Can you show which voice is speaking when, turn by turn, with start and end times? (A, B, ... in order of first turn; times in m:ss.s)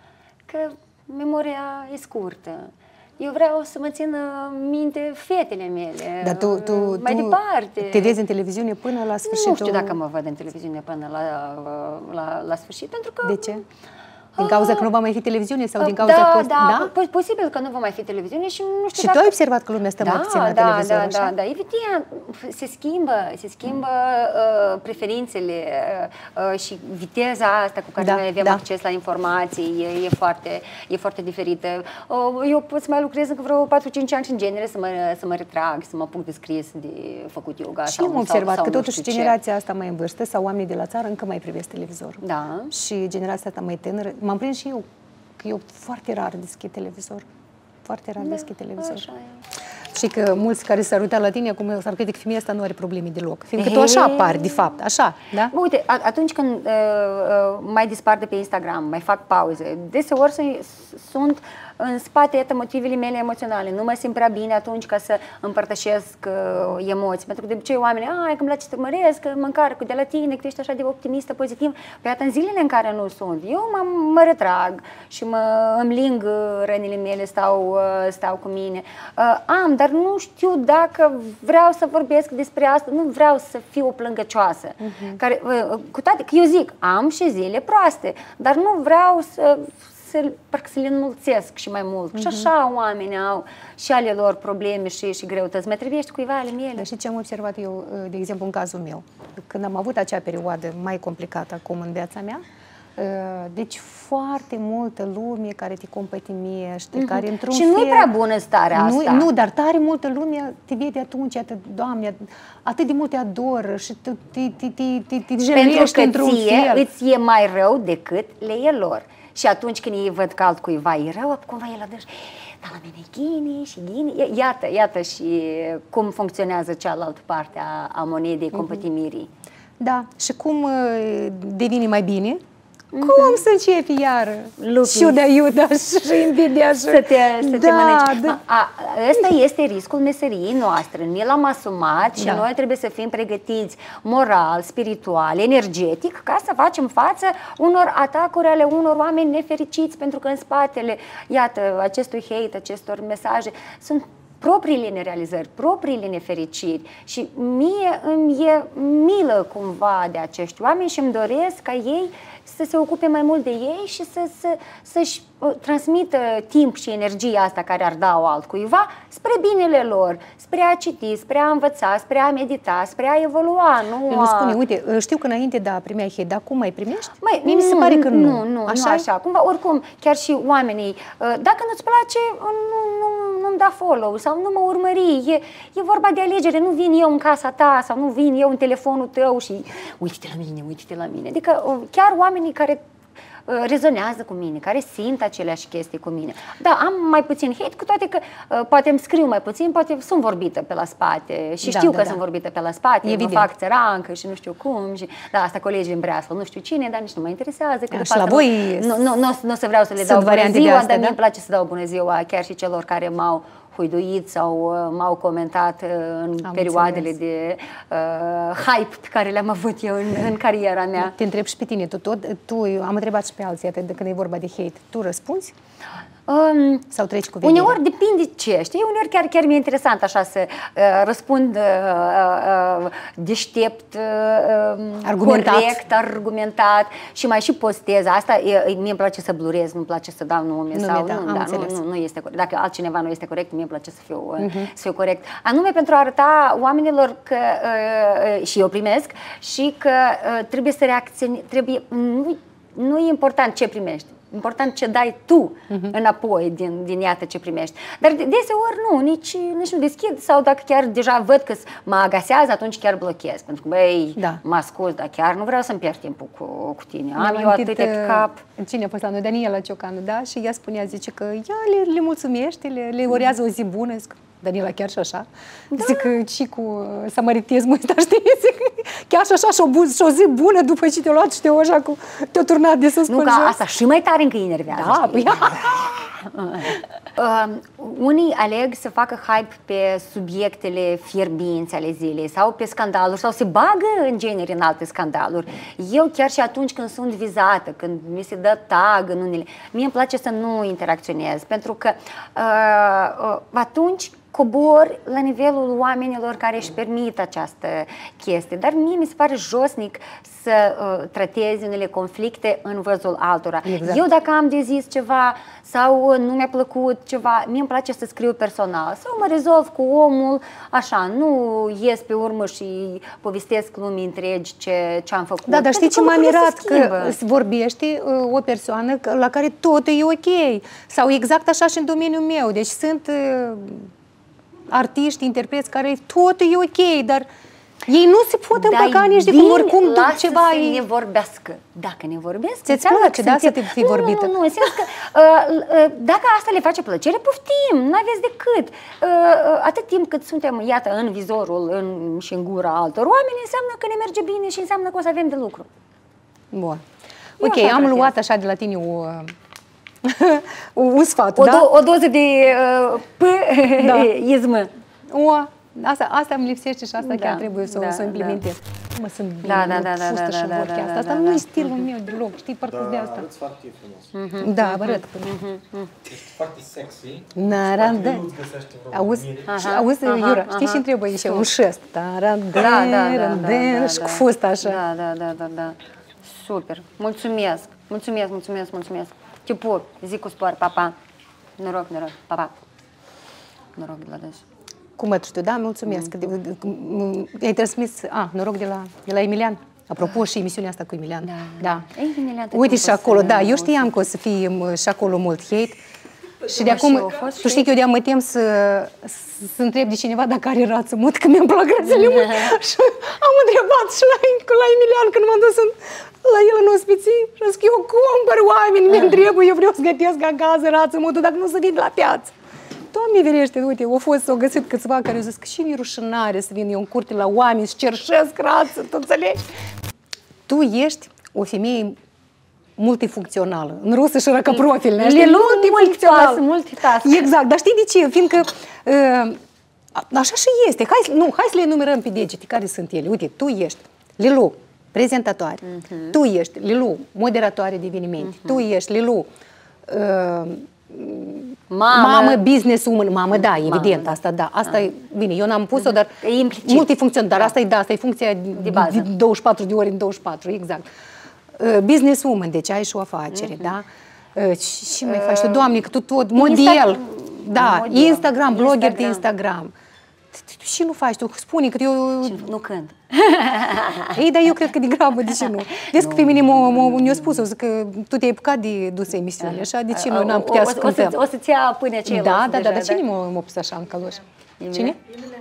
0:00.5-0:08.2 A
0:06.2-0:10.0 B
0:09.2-0:13.6 A
0:13.2-0:13.6 B
0:14.4-0:14.9 A
0:14.4-0:16.9 B
0:15.8-0:19.3 A
0:19.0-0:21.3 B
0:20.0-0:39.4 A
0:28.0-0:28.6 B
0:37.9-0:44.8 B
0:42.2-0:42.7 A
0:45.4-0:47.2 B
0:47.8-0:49.0 B
0:48.2-0:49.4 A
0:49.9-0:55.5 B
0:53.6-0:54.6 A
0:55.5-1:36.9 A
1:24.8-1:25.2 B
1:32.1-1:32.5 B
1:36.8-1:42.4 B
1:43.0-1:48.1 B
1:47.0-1:49.3 A
1:48.7-1:56.9 B
1:55.5-2:09.3 A
2:08.5-2:08.8 B
2:09.8-2:12.4 B
2:12.9-2:13.4 A
2:13.0-2:18.4 B
2:14.6-2:15.2 A
2:16.8-2:54.6 A
2:22.2-2:22.4 B
2:54.1-2:59.1 B
2:57.2-3:12.8 A
3:13.5-3:41.2 A
3:21.6-3:22.2 B
3:23.0-3:23.5 B
3:27.9-3:29.0 B
3:30.0-3:31.2 B
3:36.4-3:37.1 B
3:41.0-3:45.5 B
3:46.3-3:46.9 A
3:46.9-3:47.8 B
3:47.4-4:28.4 A
3:55.0-3:55.8 B
4:00.7-4:01.8 B
4:04.4-4:04.7 B
4:27.2-4:43.6 B
4:35.7-4:36.1 A
4:43.1-4:45.6 A
4:44.7-4:46.1 B
4:46.2-5:27.2 A
5:13.6-5:14.0 B
5:25.5-5:33.9 B
5:34.7-5:37.2 B
5:37.8-5:40.8 B
5:38.6-5:55.7 A
5:42.6-5:44.3 B
5:56.5-5:56.8 B
5:57.4-5:59.3 B
5:57.4-5:58.1 A
6:00.0-6:01.7 B
6:01.4-6:04.7 A
6:03.8-6:04.1 B
6:05.1-6:13.3 B
6:07.0-6:08.4 A
6:09.4-6:11.8 A
6:12.7-6:14.1 C
6:14.1-6:15.9 A
6:14.4-6:15.4 B
6:16.1-6:19.5 C
6:17.3-6:18.3 B
6:18.9-6:24.8 B
6:19.5-6:21.4 A
6:22.5-6:30.9 A
6:31.6-6:32.5 A
6:33.8-6:34.4 A
6:35.0-6:41.8 B
6:41.2-6:43.9 A
6:42.5-6:45.8 B
6:46.5-7:02.3 B
6:46.5-6:47.7 A
6:52.0-6:52.5 A
7:02.9-7:09.4 B
7:10.5-7:12.0 B
7:12.8-7:16.4 B
7:14.8-7:17.3 A
7:17.0-7:19.4 B
7:19.9-7:29.3 B
7:25.6-7:26.2 A
7:28.2-7:28.6 A
7:29.9-7:40.9 B
7:31.7-7:32.4 A
7:33.3-7:34.1 A
7:35.8-7:37.5 A
7:38.5-7:39.1 A
7:41.6-7:49.7 B
7:43.3-7:43.7 A
7:45.0-7:45.7 A
7:46.4-7:49.2 A
7:50.3-7:52.5 B
7:52.2-7:54.2 A
7:54.1-8:01.2 B
7:55.8-7:57.4 A
7:59.4-8:03.0 A
8:02.0-8:04.2 B
8:04.6-8:05.0 A